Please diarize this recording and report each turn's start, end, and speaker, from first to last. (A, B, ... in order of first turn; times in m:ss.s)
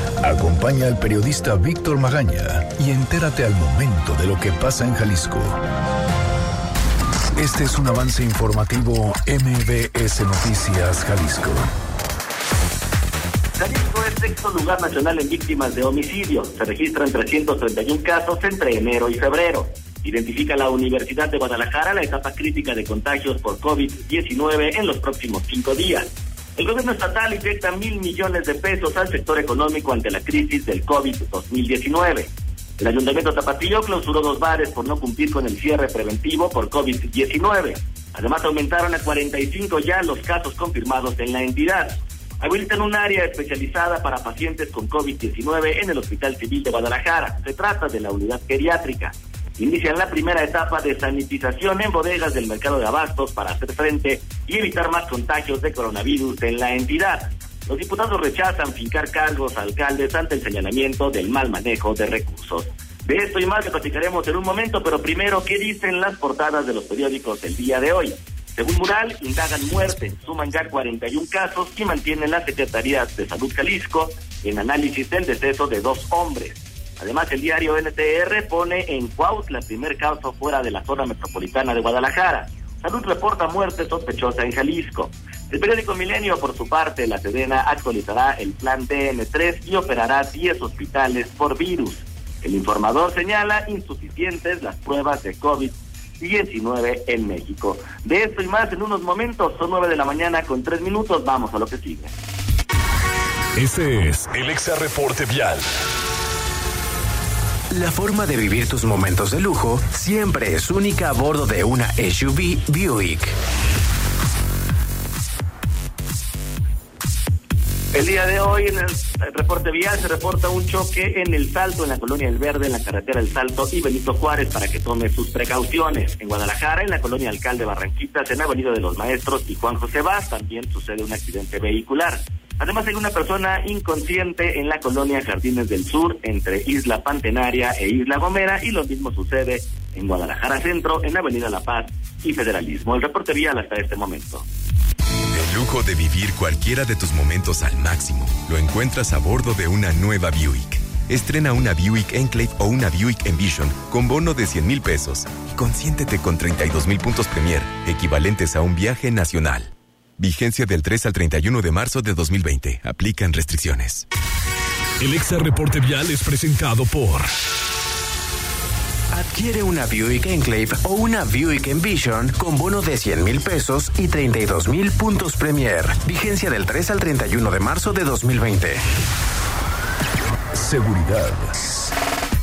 0:00.2-0:05.6 A
0:07.4-0:11.7 A
0:13.6-1:42.1 B
1:43.6-1:45.6 A
1:47.7-1:53.4 C
1:57.9-2:24.4 B
2:25.3-2:44.1 D
2:45.0-2:47.3 A
2:49.1-2:58.8 C
3:00.5-3:01.6 A